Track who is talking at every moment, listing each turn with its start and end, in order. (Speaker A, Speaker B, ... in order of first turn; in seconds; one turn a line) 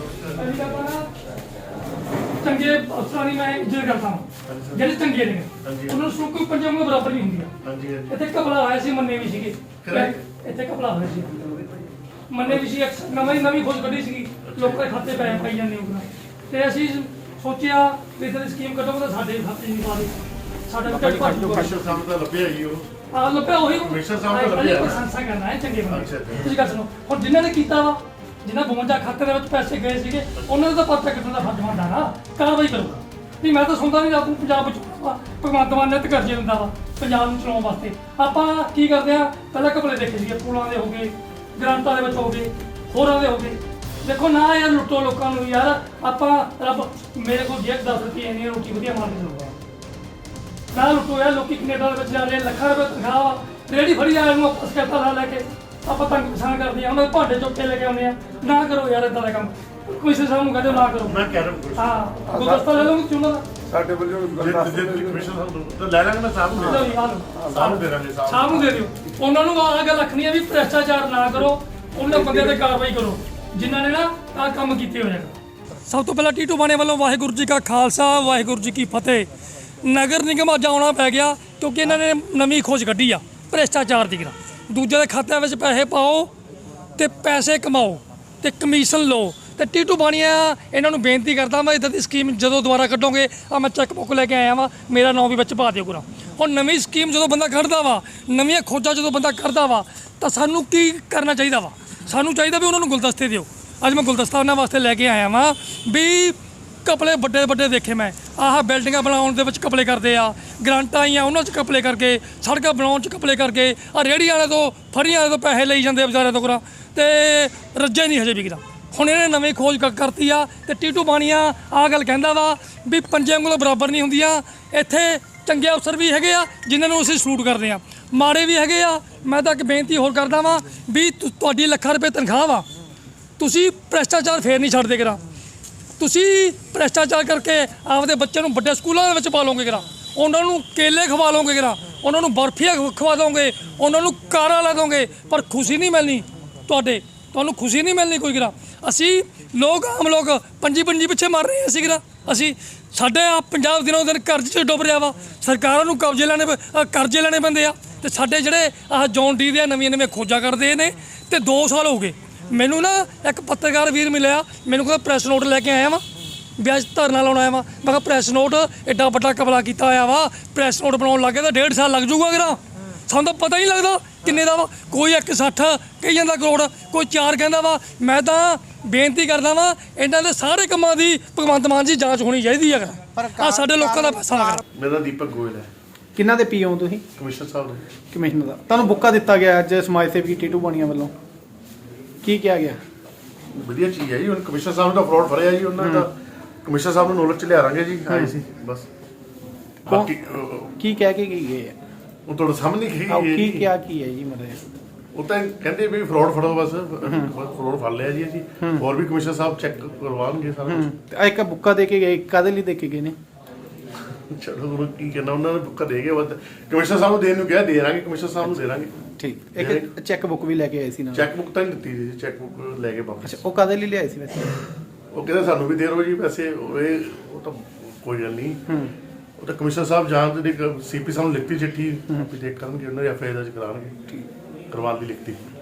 Speaker A: 0.3-1.1
Speaker A: 2.4-7.5
Speaker B: 4.5-4.8
Speaker B: 5.6-6.0
Speaker B: 7.6-8.2
Speaker A: 8.1-11.3
Speaker B: 9.8-10.2
Speaker A: 12.3-21.7
Speaker B: 14.5-14.8
Speaker C: 20.9-21.9
Speaker B: 21.4-22.9
Speaker A: 23.1-49.5
Speaker B: 23.8-25.0
Speaker B: 25.9-26.5
Speaker A: 50.7-61.2
Speaker B: 61.1-62.0
Speaker A: 61.8-63.5
Speaker B: 64.3-66.9
Speaker A: 66.6-79.3
Speaker B: 67.5-68.7
Speaker A: 79.8-86.3
Speaker A: 87.0-132.7
Speaker A: 133.4-135.2
Speaker A: 136.0-166.0
Speaker A: 166.6-184.6
Speaker C: 183.4-183.8
Speaker B: 184.8-185.7
Speaker C: 186.2-187.1
Speaker B: 187.2-187.8
Speaker C: 188.1-191.1
Speaker C: 192.2-192.8
Speaker B: 193.5-196.1
Speaker C: 195.8-196.1
Speaker B: 196.7-198.9
Speaker B: 199.9-200.7
Speaker C: 200.8-201.8
Speaker B: 202.3-203.7
Speaker C: 203.1-204.6
Speaker B: 205.1-210.9
Speaker C: 210.7-213.2
Speaker B: 214.2-218.9
Speaker C: 219.2-221.3
Speaker B: 219.6-219.9
Speaker B: 221.1-223.4
Speaker C: 223.2-224.6
Speaker B: 225.1-228.7
Speaker B: 229.4-233.9
Speaker B: 234.7-235.4